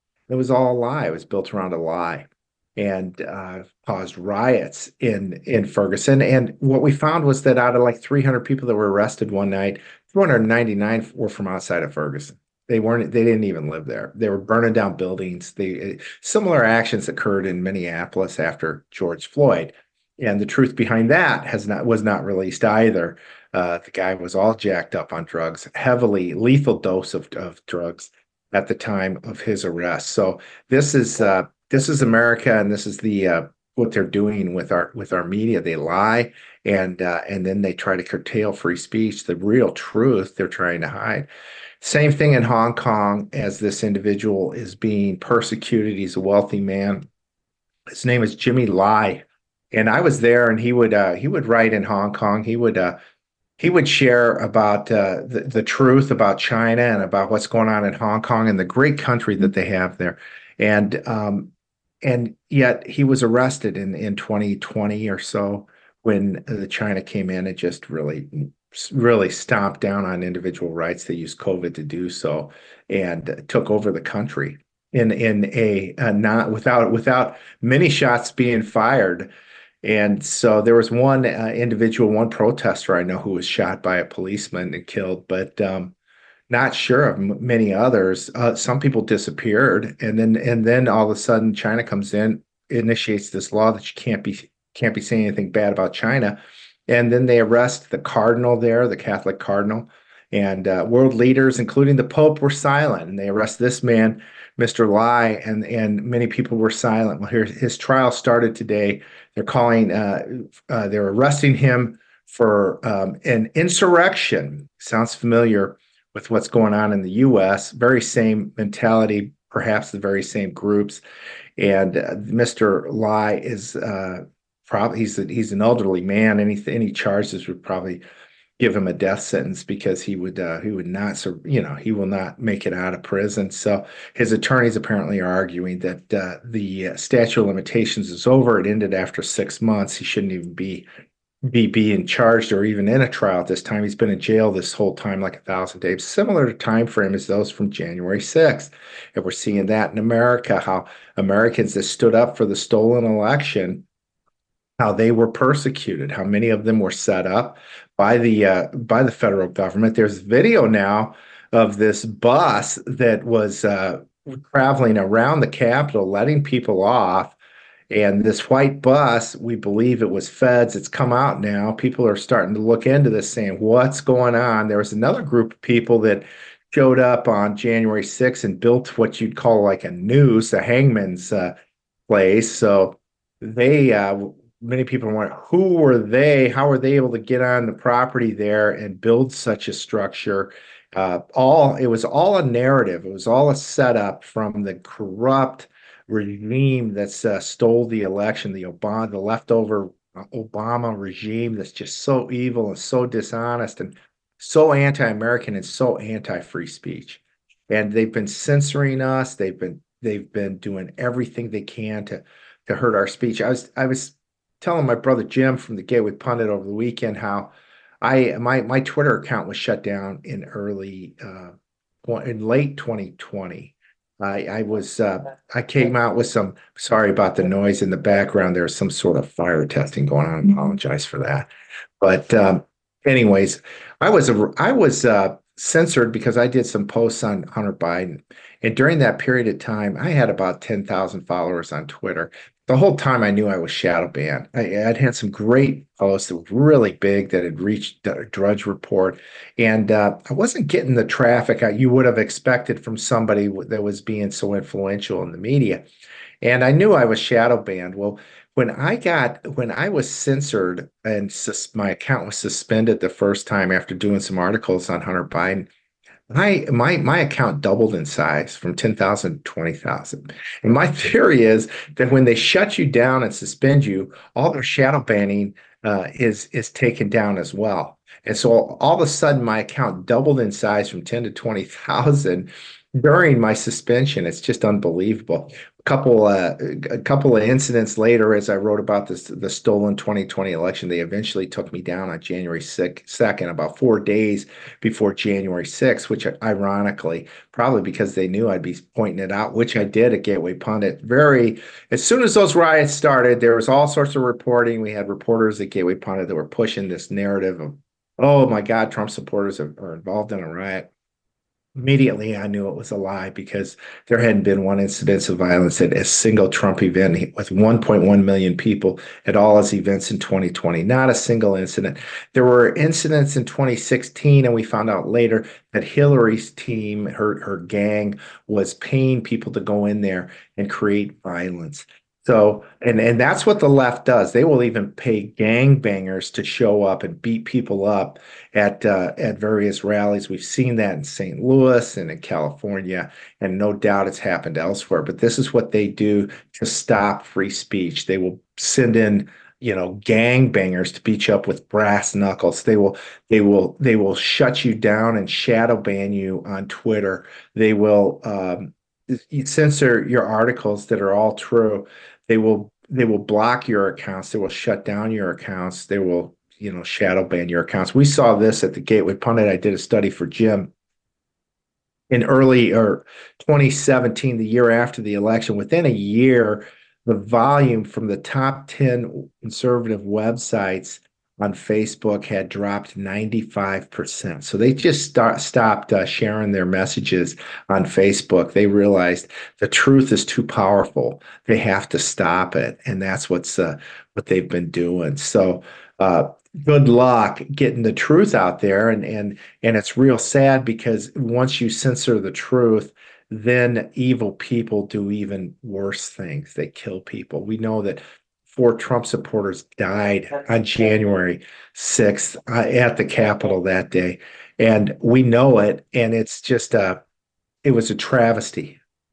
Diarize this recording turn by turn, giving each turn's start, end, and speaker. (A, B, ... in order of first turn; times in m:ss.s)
0:00.3-0:41.3 A
0:41.8-0:47.1 A
0:47.9-0:53.0 A
0:53.6-1:01.5 A
1:02.0-1:19.3 A
1:19.8-1:25.9 A
1:26.5-2:01.0 A
2:01.6-2:08.0 A
2:08.6-2:20.8 A
2:21.4-2:33.8 A
2:34.8-2:47.4 A
2:47.9-3:01.5 A
3:02.1-3:51.5 A
3:52.0-4:15.8 A
4:16.4-4:25.7 A
4:26.3-5:10.9 A
5:11.8-6:10.7 A
6:12.1-6:57.0 A
6:57.6-6:58.8 A